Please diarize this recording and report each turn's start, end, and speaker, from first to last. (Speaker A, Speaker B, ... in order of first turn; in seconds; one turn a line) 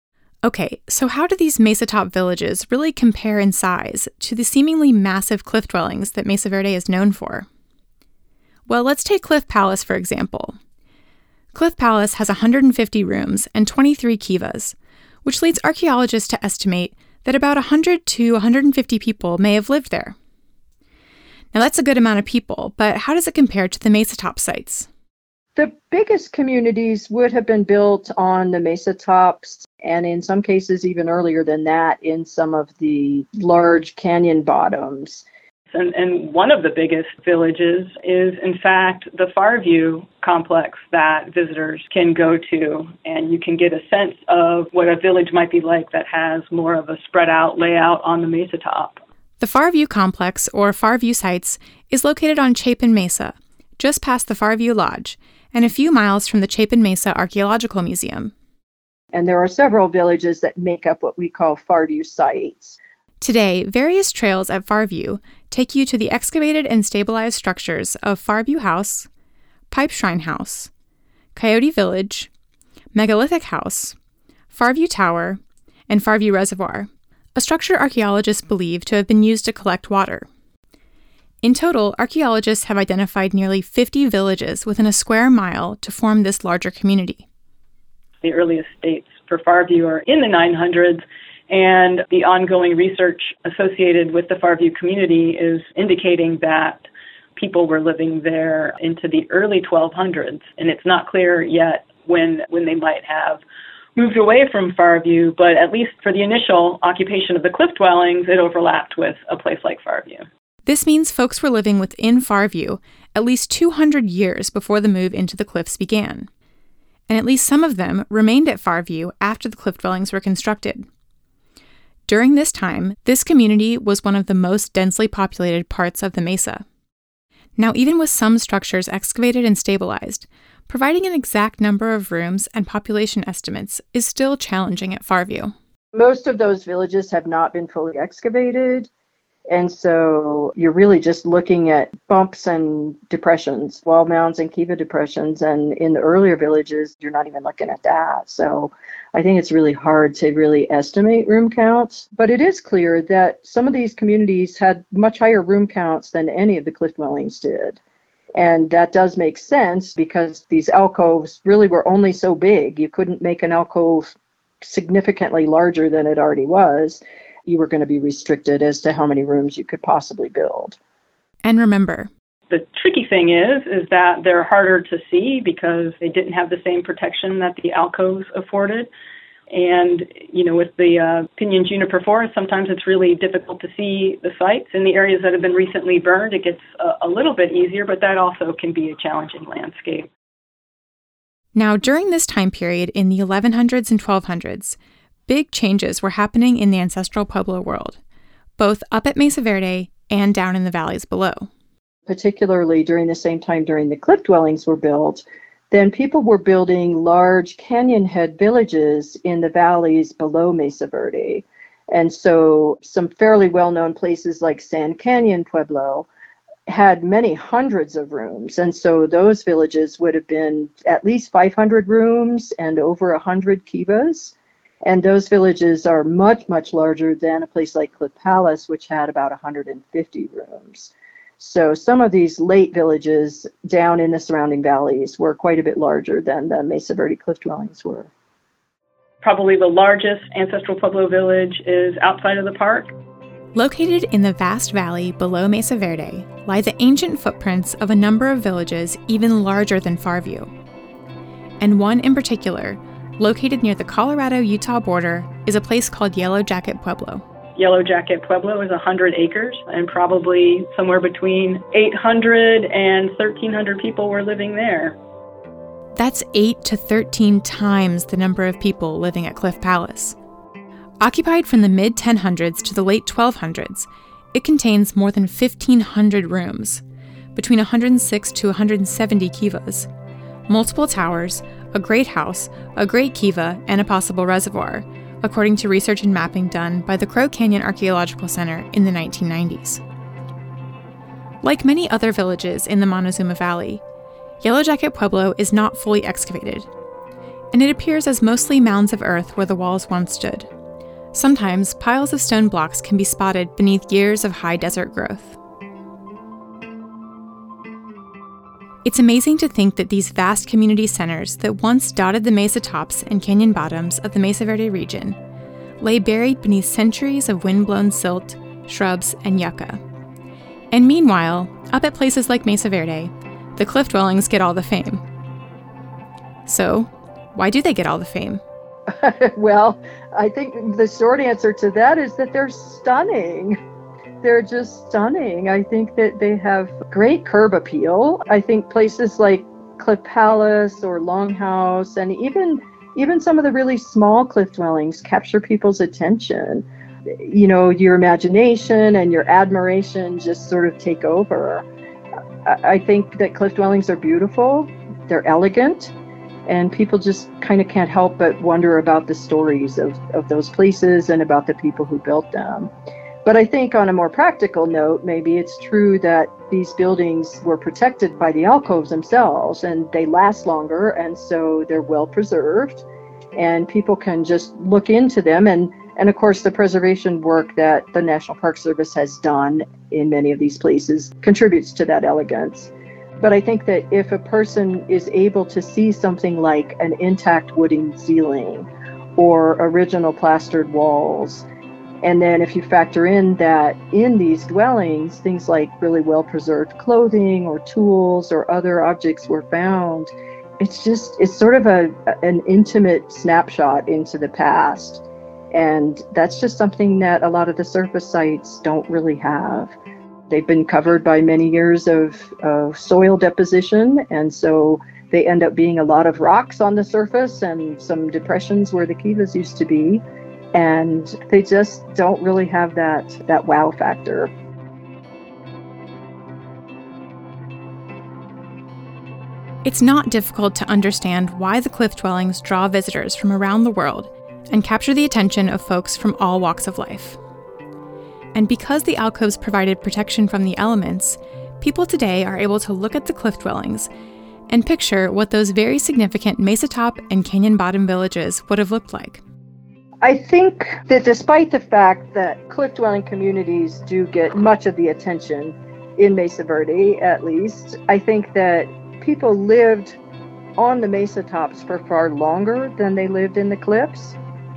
Speaker A: 0.4-7.5
Speaker A: 8.7-10.6
Speaker A: 11.5-20.1
Speaker A: 21.5-24.9
Speaker B: 25.6-35.2
Speaker C: 35.7-49.0
Speaker A: 49.4-58.3
Speaker B: 59.1-62.8
Speaker A: 63.2-69.1
Speaker A: 69.7-70.7
Speaker A: 71.3-72.3
Speaker A: 72.9-74.0
Speaker A: 74.5-80.3
Speaker A: 81.4-87.3
Speaker C: 88.2-96.8
Speaker C: 97.4-103.4
Speaker C: 104.0-110.2
Speaker A: 110.7-116.3
Speaker A: 117.1-120.9
Speaker A: 122.1-126.6
Speaker A: 127.6-135.5
Speaker B: 135.9-138.9
Speaker B: 139.5-157.8
Speaker B: 158.4-170.8
Speaker A: 171.4-172.1
Speaker C: 172.5-178.9
Speaker C: 179.5-190.1
Speaker A: 191.6-198.0
Speaker A: 198.6-201.5
Speaker B: 202.1-216.1
Speaker B: 216.7-238.1
Speaker C: 239.2-242.9
Speaker A: 243.5-250.5
Speaker A: 251.6-257.2
Speaker C: 257.6-265.0
Speaker A: 266.0-270.2
Speaker A: 271.0-276.8
Speaker A: 277.4-279.9
Speaker A: 280.5-289.8
Speaker A: 291.4-293.8
Speaker A: 294.4-296.7
Speaker A: 297.5-300.5
Speaker A: 301.1-305.4
Speaker A: 308.8-315.2
Speaker A: 315.8-319.8
Speaker A: 320.7-325.0
Speaker A: 326.5-328.4
Speaker B: 328.9-333.6
Speaker B: 334.2-351.7
Speaker B: 352.4-355.9
Speaker B: 356.5-362.7
Speaker B: 363.2-372.9
Speaker B: 373.4-391.4
Speaker B: 392.0-409.8
Speaker B: 410.3-424.3
Speaker A: 429.6-437.2
Speaker A: 438.3-443.9
Speaker A: 444.5-449.2
Speaker B: 450.0-460.0
Speaker B: 460.6-464.2